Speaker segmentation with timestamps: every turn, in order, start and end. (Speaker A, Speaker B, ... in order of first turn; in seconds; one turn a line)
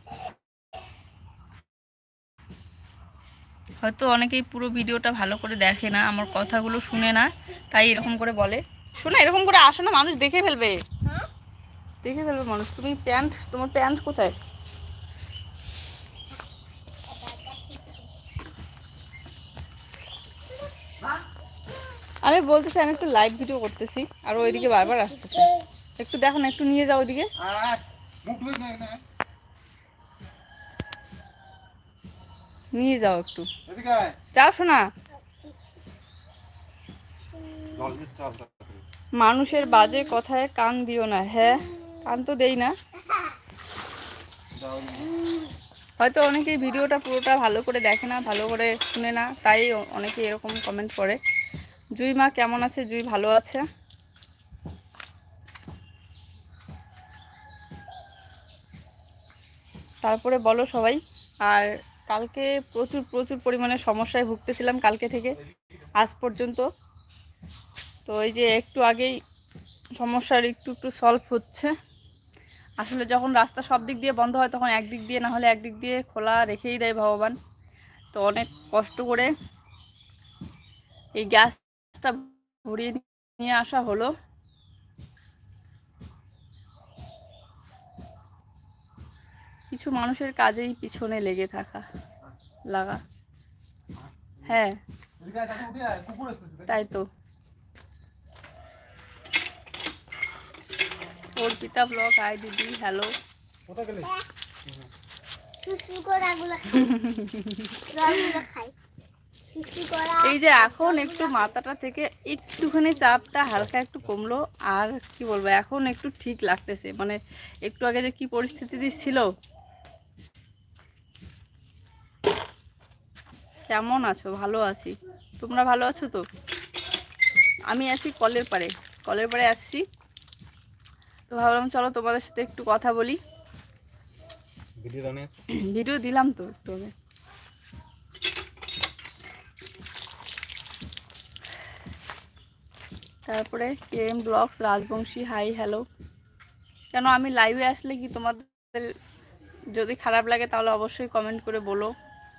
Speaker A: 3.8-10.8
Speaker B: 6.2-7.2
Speaker A: 12.0-14.3
Speaker B: 17.1-18.1
Speaker A: 22.2-25.4
Speaker B: 24.4-25.6
Speaker A: 26.0-27.3
Speaker C: 28.2-29.0
Speaker A: 32.7-33.5
Speaker A: 34.3-34.9
Speaker B: 37.3-38.0
Speaker C: 37.8-38.8
Speaker A: 39.2-42.7
Speaker B: 39.7-40.1
Speaker B: 41.6-42.0
Speaker B: 43.0-43.3
Speaker C: 44.6-45.1
Speaker A: 46.0-51.2
Speaker A: 52.0-53.6
Speaker A: 60.0-65.3
Speaker A: 66.0-66.6
Speaker A: 68.0-69.1
Speaker A: 70.0-71.7
Speaker A: 72.8-77.3
Speaker A: 78.1-79.3
Speaker A: 81.2-84.1
Speaker A: 89.7-91.8
Speaker A: 92.7-93.0
Speaker A: 94.4-94.8
Speaker C: 95.2-96.7
Speaker A: 96.7-97.0
Speaker A: 101.4-103.1
Speaker C: 103.7-104.1
Speaker B: 105.6-106.9
Speaker A: 106.8-108.3
Speaker B: 107.9-108.7
Speaker B: 109.5-111.5
Speaker A: 110.2-119.3
Speaker A: 123.7-126.2
Speaker A: 127.7-129.8
Speaker A: 131.3-133.2
Speaker C: 134.8-135.3
Speaker A: 135.7-136.9
Speaker A: 143.2-145.8
Speaker A: 146.9-148.9
Speaker A: 149.7-151.9